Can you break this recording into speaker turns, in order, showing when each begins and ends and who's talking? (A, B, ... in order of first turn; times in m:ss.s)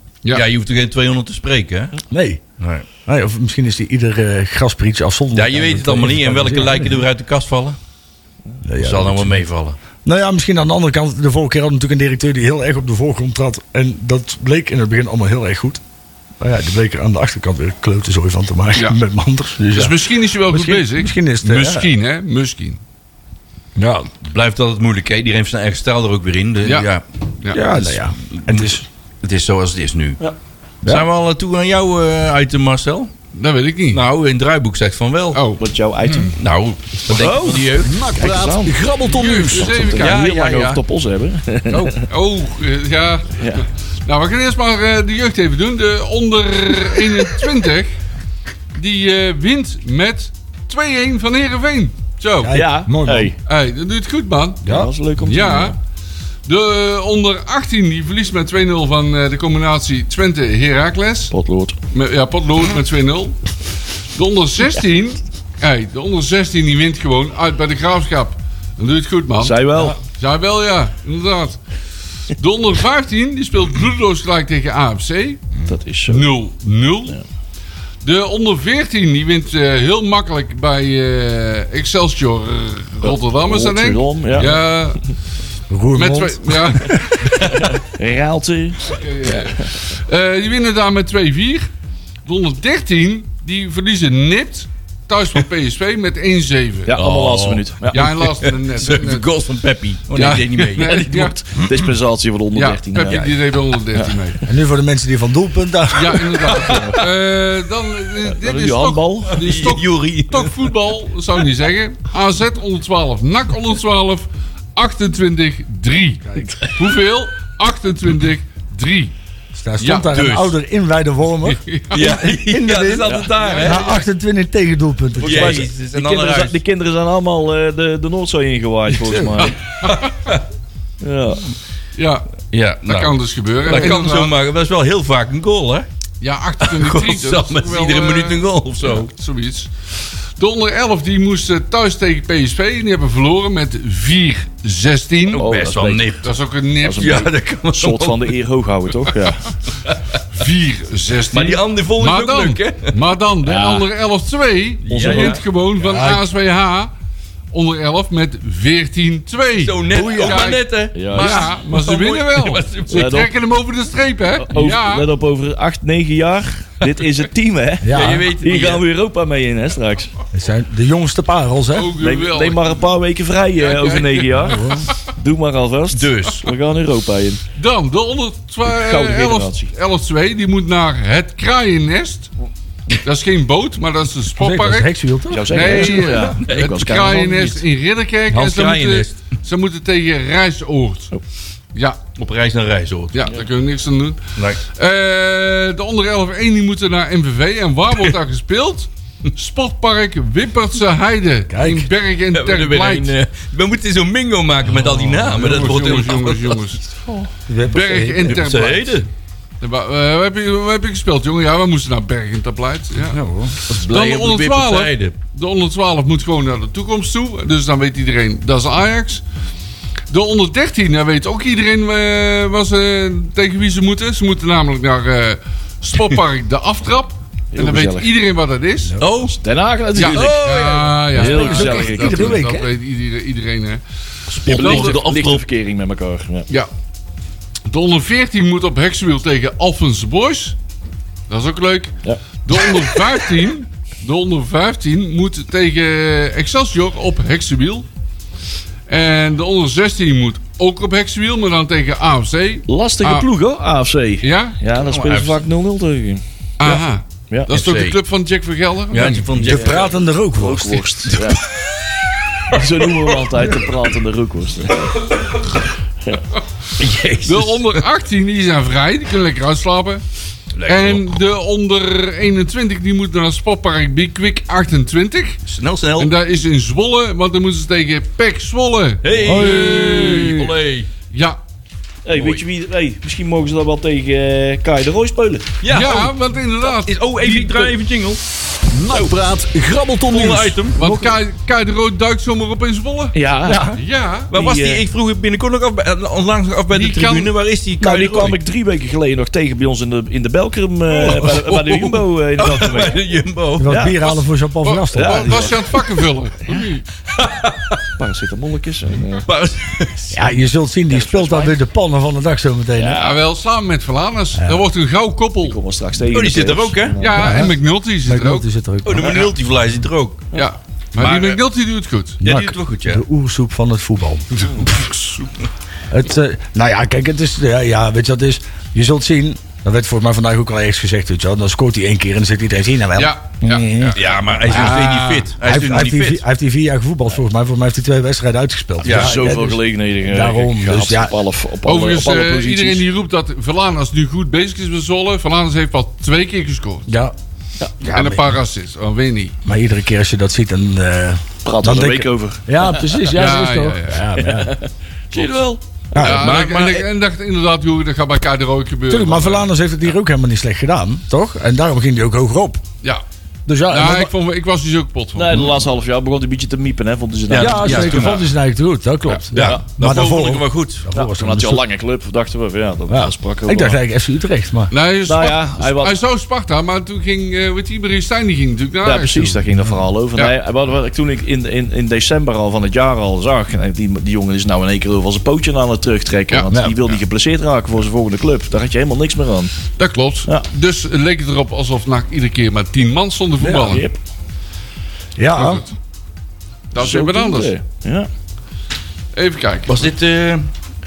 0:00.3-0:01.9 A
0:02.1-0:02.4 B
0:02.6-0:02.9 A
0:03.0-0:07.0 B
0:05.3-0:07.8 A
0:08.6-0:09.4 B
0:08.8-0:09.8 A
0:10.0-0:15.8 B
0:16.4-0:21.9 B
0:19.7-0:22.8 C
0:23.8-0:24.1 B
0:24.2-0:27.0 A
0:26.6-0:26.9 C
0:27.5-0:28.9 B
0:27.6-0:30.2 A
0:30.9-0:33.1 A
0:33.3-0:34.0 C
0:33.9-0:35.4 A
0:35.3-0:36.3 C
0:35.6-0:36.4 D
0:36.4-0:38.0 A
0:37.1-0:42.0 D
0:37.8-0:39.7 E
0:39.0-0:40.2 C
0:39.9-0:40.8 A
0:42.0-0:48.0 C
0:43.4-0:43.6 D
0:48.7-0:52.7 C
0:52.4-0:53.3 B
0:52.5-0:53.4 D
0:53.4-0:54.6 C
0:54.6-0:54.9 B
0:54.6-0:55.8 D
0:55.2-0:55.8 C
0:56.4-1:01.3 C
1:01.3-1:01.8 D
1:01.9-1:03.5 C
1:04.1-1:11.6 C
1:09.4-1:10.0 D
1:12.3-1:15.5 C
1:15.6-1:16.3 D
1:16.1-1:17.2 C
1:18.0-1:25.0 C
1:23.0-1:24.6 D
1:25.7-1:27.6 B
1:26.0-1:27.4 C
1:27.5-1:29.6 D
1:28.8-1:31.7 C
1:32.2-1:37.0 C
1:36.9-1:38.0 D
1:37.0-1:41.0 A
1:37.9-1:39.3 C
1:40.1-1:41.3 C
1:40.8-1:43.3 D
1:42.5-1:44.4 C
1:44.4-1:46.8 B
1:45.9-1:59.1 C
1:46.6-1:47.0 D
1:48.2-1:49.4 D
1:49.4-1:50.6 A
1:56.4-1:56.8 D
1:59.5-2:05.7 B
1:59.8-2:00.3 C
2:00.1-2:00.5 A
2:01.5-2:02.1 C
2:01.9-2:03.9 A
2:03.4-2:04.0 C
2:05.2-2:06.6 A
2:05.2-2:09.6 D
2:08.9-2:09.5 B
2:09.8-2:10.1 C
2:10.1-2:10.4 A
2:11.0-2:11.4 D
2:12.0-2:14.4 C
2:12.5-2:15.9 A
2:16.2-2:19.7 C
2:16.6-2:19.1 A
2:20.4-2:25.5 C
2:25.3-2:26.3 A
2:25.4-2:26.1 D
2:26.2-2:27.3 C
2:26.8-2:29.5 D
2:26.8-2:28.4 A
2:30.3-2:36.9 C
2:31.3-2:32.9 A
2:33.4-2:33.9 D
2:34.8-2:35.4 A
2:34.9-2:35.4 D
2:35.8-2:36.2 B
2:37.5-2:45.1 C
2:39.6-2:43.1 A
2:39.9-2:40.5 B
2:40.9-2:41.5 D
2:42.9-2:43.3 D
2:44.4-2:50.1 D
2:47.8-2:48.3 B
2:47.9-2:48.8 A
2:50.3-2:51.9 B
2:51.7-2:52.8 C
2:52.0-2:57.4 D
2:53.6-2:54.9 C
2:54.4-2:54.9 B
2:55.9-2:56.5 A
2:57.6-3:02.3 C
2:58.6-2:59.7 D
3:03.0-3:04.9 C
3:04.4-3:06.1 B
3:05.3-3:07.6 D
3:05.5-3:11.1 C
3:08.3-3:09.2 A
3:11.8-3:12.0 C
3:12.1-3:13.3 A
3:13.1-3:23.1 C
3:21.5-3:21.9 B
3:22.3-3:26.6 A
3:25.0-3:26.8 C
3:27.5-3:28.4 B
3:27.6-3:29.0 C
3:28.3-3:29.1 A
3:29.6-3:33.2 C
3:33.1-3:33.5 B
3:33.6-3:35.1 A
3:33.8-3:39.2 C
3:40.1-3:49.0 C
3:47.5-3:48.1 D
3:49.0-3:49.4 A
3:49.3-3:50.5 D
3:50.0-3:53.8 C
3:50.0-3:51.0 A
3:51.1-3:52.4 D
3:51.1-3:52.7 B
3:54.3-3:55.4 A
3:54.5-3:55.0 C
3:54.5-3:56.5 D
3:57.7-4:00.6 C
4:01.3-4:07.9 C
4:08.9-4:13.3 C
4:12.7-4:16.2 D
4:14.2-4:14.6 C
4:14.7-4:15.4 A
4:16.6-4:19.5 C
4:17.5-4:18.0 A
4:18.9-4:19.9 A
4:19.4-4:21.2 B
4:19.5-4:21.4 D
4:22.5-4:25.0 D
4:25.1-4:25.7 A
4:26.8-4:27.8 A
4:27.2-4:30.0 C
4:30.6-4:31.2 A
4:30.6-4:35.4 C
4:35.5-4:36.1 A
4:36.0-4:40.5 C
4:39.0-4:40.9 A
4:39.2-4:40.5 B
4:41.1-4:41.4 C
4:42.0-4:45.6 D
4:42.1-4:42.4 A
4:45.6-4:48.2 A
4:45.7-4:47.7 C
4:48.7-4:50.7 E
4:50.1-4:50.9 A
4:50.7-4:53.2 C
4:53.1-4:53.8 D
4:53.5-4:53.8 B
4:53.7-4:54.3 C
4:54.3-4:54.8 D
4:54.3-4:58.4 A
4:56.7-4:57.3 C
4:57.8-5:03.0 D
5:00.9-5:03.8 A
5:03.6-5:05.6 B
5:03.6-5:04.0 D
5:04.0-5:06.8 C
5:04.9-5:05.6 D
5:07.1-5:07.8 A
5:08.0-5:09.2 D
5:09.2-5:10.3 A
5:10.1-5:13.0 B
5:10.9-5:11.6 D
5:12.8-5:13.2 D
5:13.0-5:15.6 C
5:14.4-5:14.6 B
5:15.4-5:17.4 D
5:16.1-5:17.0 A
5:17.0-5:18.5 C
5:17.2-5:19.3 B
5:18.8-5:20.3 A
5:20.3-5:22.2 C
5:21.0-5:21.4 A
5:22.2-5:23.0 A
5:22.2-5:24.6 B
5:24.4-5:25.3 C
5:25.9-5:34.9 B
5:33.0-5:35.3 C
5:33.8-5:36.2 A
5:35.4-5:41.1 B
5:38.8-5:39.2 A
5:38.9-5:42.8 D
5:41.6-5:46.9 C
5:46.9-5:47.1 B
5:47.8-5:48.4 B
5:47.9-5:49.4 C
5:49.4-5:54.6 B
5:51.4-5:53.1 D
5:53.1-5:54.1 C
5:54.2-5:56.2 D
5:55.9-5:56.3 B
5:56.0-5:59.5 C
5:56.0-5:56.8 A
5:58.9-6:02.6 B
6:03.5-6:04.1 B
6:03.7-6:05.5 C
6:05.1-6:08.1 D
6:07.3-6:08.2 A
6:07.3-6:11.6 B
6:09.3-6:10.8 A
6:09.4-6:09.6 D
6:10.9-6:13.8 D
6:12.9-6:14.7 B
6:14.7-6:19.4 C
6:15.0-6:16.0 D
6:18.8-6:29.5 D
6:26.5-6:26.8 B
6:29.8-6:33.9 C
6:33.4-6:33.8 B
6:33.6-6:34.0 D
6:35.2-6:35.6 B
6:35.3-6:35.7 C
6:36.7-6:37.5 C
6:36.8-6:38.1 D
6:39.1-6:39.9 C
6:39.7-6:40.5 A